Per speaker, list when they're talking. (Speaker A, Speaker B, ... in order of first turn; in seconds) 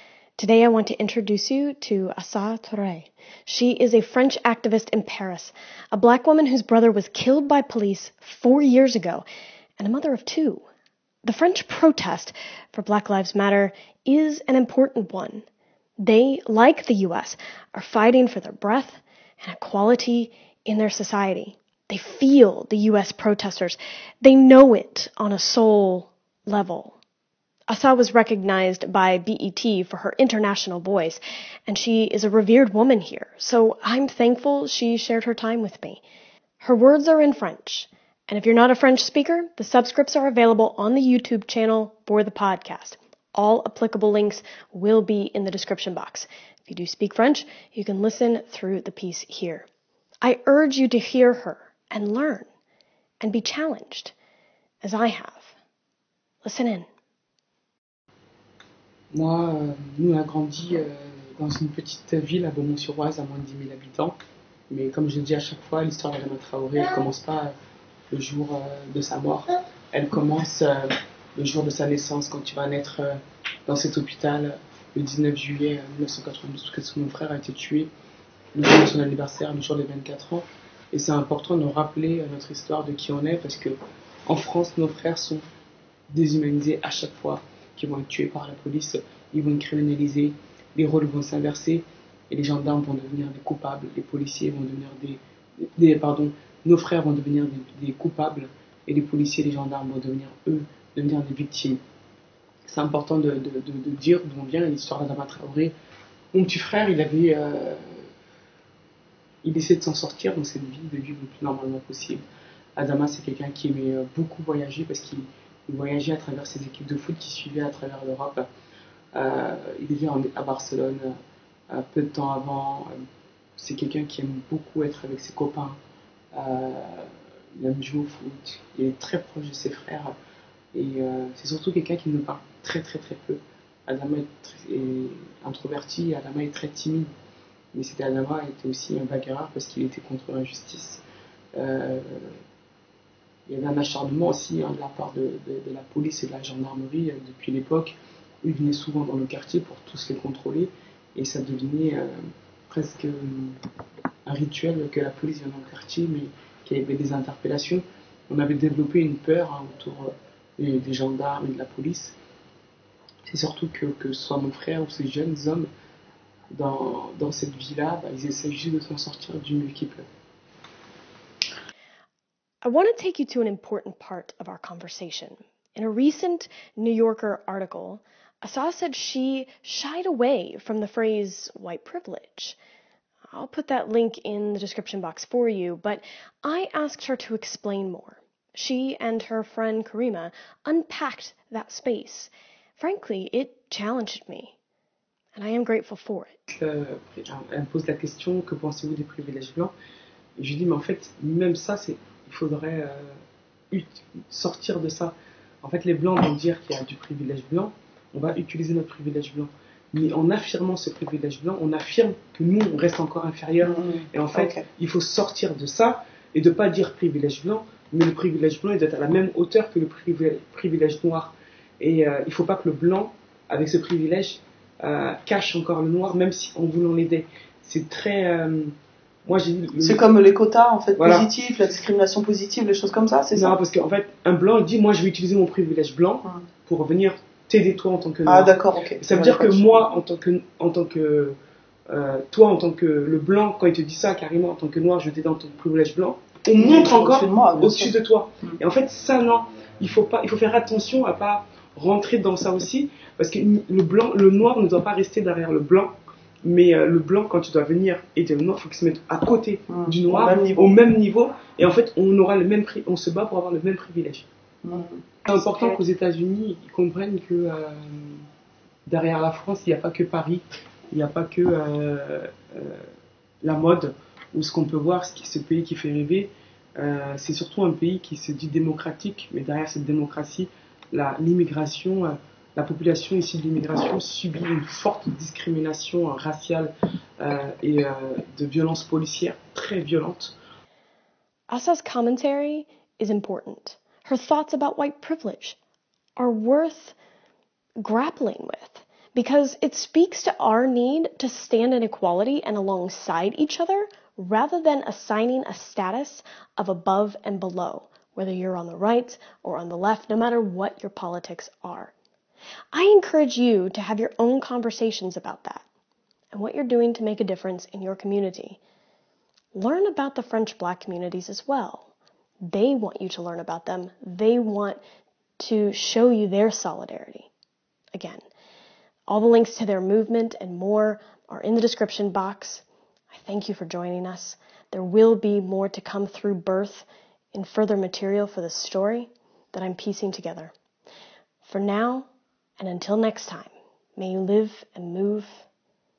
Speaker A: 0.4-9.2, 9.8-10.7, 11.2-15.4, 16.0-27.0, 27.7-36.0, 36.6-49.7, 50.2-52.5, 53.2-54.1, 54.8-55.5, 56.4-56.9, 172.6-182.6, 183.3-194.6, 195.3-196.3, 291.5-295.6, 296.2-297.0, 297.8-311.9, 312.7-315.6, 316.3-318.6, 319.5-321.9, 322.5-324.8, 325.4-327.3, 327.9-328.2, 329.1-340.5, 341.4-342.1, 342.6-345.5
Speaker B: 59.1-64.2, 64.7-67.5, 68.1-77.9, 78.5-83.7, 84.3-85.4, 86.1-101.8, 102.7-105.7, 106.3-108.1, 109.4-112.2, 112.8-118.5, 119.2-121.1, 121.7-122.9, 123.6-125.8, 126.3-130.1, 130.7-137.1, 137.7-141.0, 141.6-142.3, 143.5-152.2, 152.7-153.6, 154.3-162.2, 163.3-165.7, 166.5-170.1, 196.5-199.7, 200.4-203.2, 203.7-228.7, 229.2-230.1, 231.0-231.3, 233.3-241.4, 241.9-255.9, 256.4-264.3, 265.3-268.2, 268.9-272.9, 273.4-290.4
Speaker C: 214.4-214.6, 229.8-233.6, 238.2-239.7, 246.6-247.9, 259.8-260.7, 264.6-265.1